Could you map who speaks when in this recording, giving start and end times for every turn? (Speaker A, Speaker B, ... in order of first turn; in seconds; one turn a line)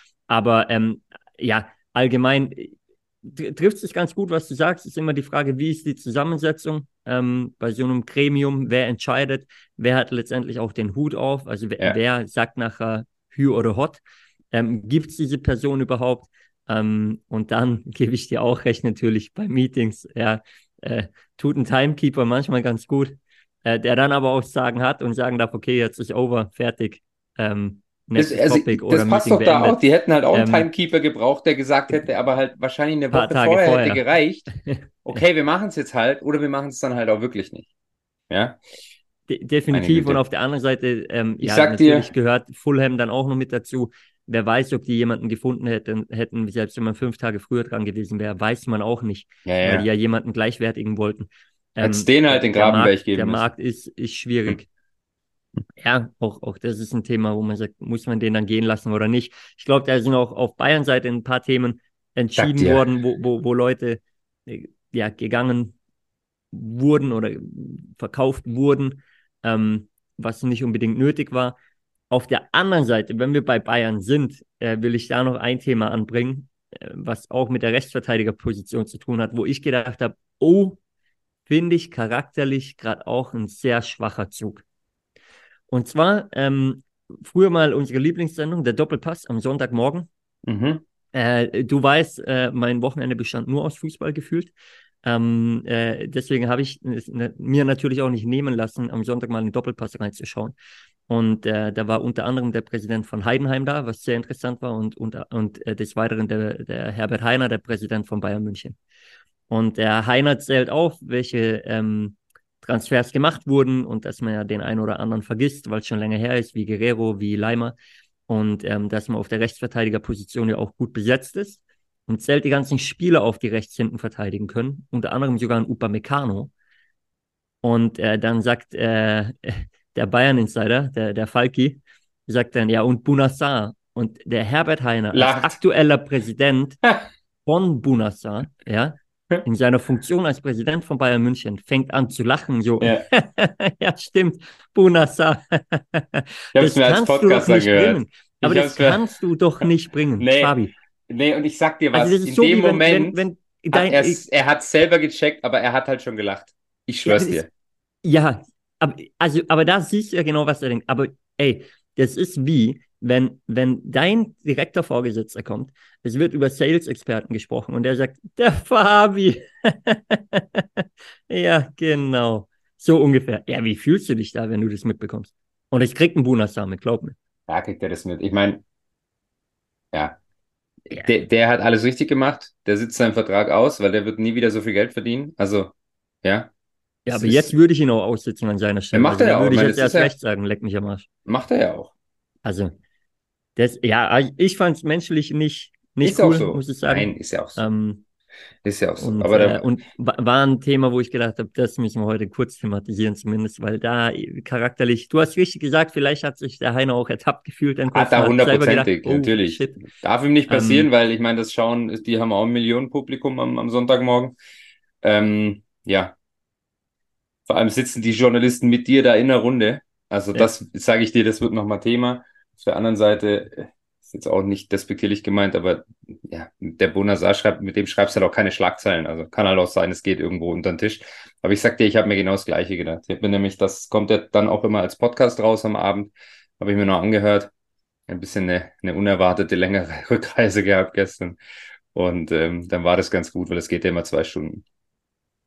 Speaker A: 0.3-29.8
Speaker B: 28.2-34.5
Speaker A: 30.3-30.7
Speaker A: 33.1-34.0
Speaker A: 34.6-35.2
Speaker B: 35.0-37.7
Speaker B: 38.3-38.6
Speaker A: 39.3-54.7
Speaker B: 39.7-40.2
Speaker B: 41.4-42.1
Speaker B: 49.5-49.9
Speaker B: 51.8-53.5
Speaker A: 55.8-65.8
Speaker B: 62.4-62.9
Speaker A: 66.5-71.6
Speaker A: 72.1-80.8
Speaker A: 81.5-84.6
Speaker A: 85.7-90.1
Speaker B: 90.5-90.8
Speaker A: 91.1-94.5
Speaker A: 95.0-100.6
Speaker A: 101.1-108.8
Speaker A: 109.5-117.8
Speaker A: 118.3-126.5
Speaker A: 127.6-136.8
Speaker B: 135.1-135.6
Speaker A: 137.5-150.7
Speaker B: 146.6-149.1
Speaker B: 150.2-157.5
Speaker A: 151.9-154.2
Speaker A: 157.1-157.4
Speaker A: 158.0-177.1
Speaker B: 177.5-178.6
Speaker B: 179.9-180.2
Speaker B: 180.9-186.5
Speaker B: 187.1-187.5
Speaker A: 187.1-191.1
Speaker B: 188.9-190.1
Speaker B: 191.2-191.9
Speaker A: 192.4-192.7
Speaker A: 193.6-198.0
Speaker B: 196.0-197.7
Speaker B: 198.6-199.7
Speaker A: 199.0-209.9
Speaker B: 207.9-214.4
Speaker A: 210.5-210.9
Speaker B: 215.0-216.2
Speaker B: 217.5-237.5
Speaker B: 238.1-241.4
Speaker B: 241.9-244.6